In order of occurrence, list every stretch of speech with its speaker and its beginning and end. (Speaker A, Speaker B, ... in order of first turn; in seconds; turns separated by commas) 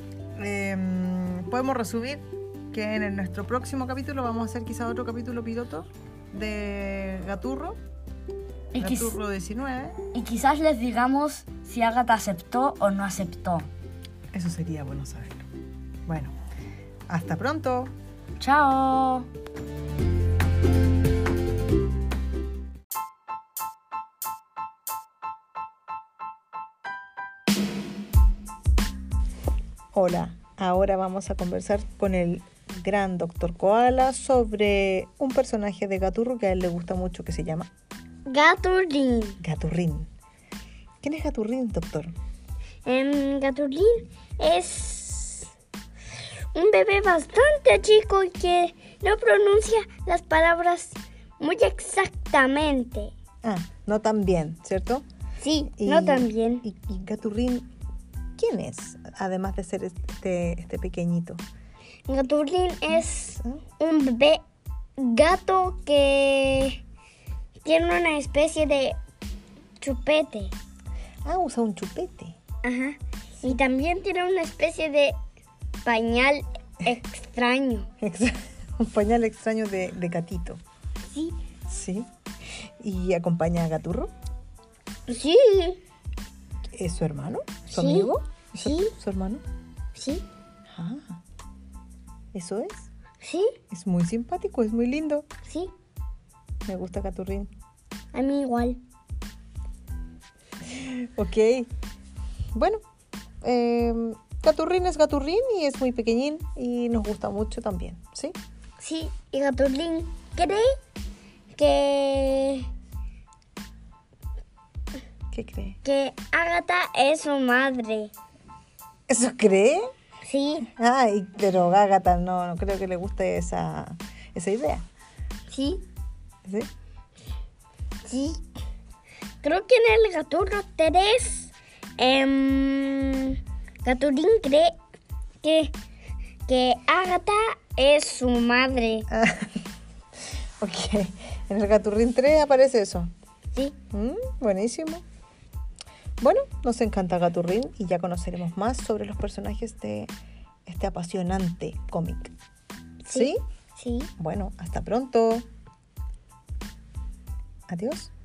Speaker A: 0.4-7.8, Speaker B: 8.7-9.2, Speaker A: 8.8-10.0, Speaker B: 10.1-13.7, Speaker A: 14.3-15.5, Speaker A: 16.1-16.4, Speaker A: 17.1-17.9, Speaker B: 18.4-19.3, Speaker A: 29.9-37.7, Speaker C: 38.3-39.4, Speaker A: 39.4-40.1, Speaker A: 41.0-42.1, Speaker C: 42.9-45.5, Speaker C: 46.5-53.1, Speaker A: 53.4-55.0, Speaker C: 55.4-56.6, Speaker A: 55.7-57.7, Speaker A: 58.4-61.4, Speaker C: 62.1-64.4, Speaker A: 62.9-63.6, Speaker C: 65.0-66.8, Speaker C: 67.6-69.0, Speaker C: 69.8-70.5, Speaker A: 71.2-72.4, Speaker C: 72.6-75.2, Speaker C: 75.8-77.9, Speaker A: 78.0-80.6, Speaker C: 81.1-81.4, Speaker A: 81.7-82.1, Speaker A: 82.8-84.1, Speaker C: 85.1-85.8, Speaker A: 86.8-89.4, Speaker C: 87.7-88.9, Speaker C: 90.0-90.2, Speaker A: 90.7-91.2, Speaker A: 92.3-92.9, Speaker C: 93.2-93.5, Speaker A: 93.7-95.3, Speaker C: 95.5-95.7, Speaker A: 96.7-97.5, Speaker C: 98.1-98.8, Speaker A: 100.6-101.7, Speaker A: 102.5-102.8, Speaker A: 103.4-108.4, Speaker C: 108.8-110.7, Speaker C: 111.6-112.7, Speaker A: 115.3-115.8, Speaker C: 115.8-118.1, Speaker A: 119.1-119.9, Speaker C: 120.2-120.7, Speaker A: 120.7-124.8, Speaker C: 125.5-125.8, Speaker C: 128.1-128.4, Speaker C: 129.4-134.7, Speaker C: 135.4-135.7, Speaker C: 136.5-139.1, Speaker A: 139.1-139.6, Speaker A: 140.6-143.1, Speaker A: 143.9-145.0, Speaker A: 146.2-150.1, Speaker A: 150.7-152.3, Speaker C: 153.1-154.1, Speaker A: 153.1-153.4, Speaker A: 154.2-155.5, Speaker A: 157.7-158.1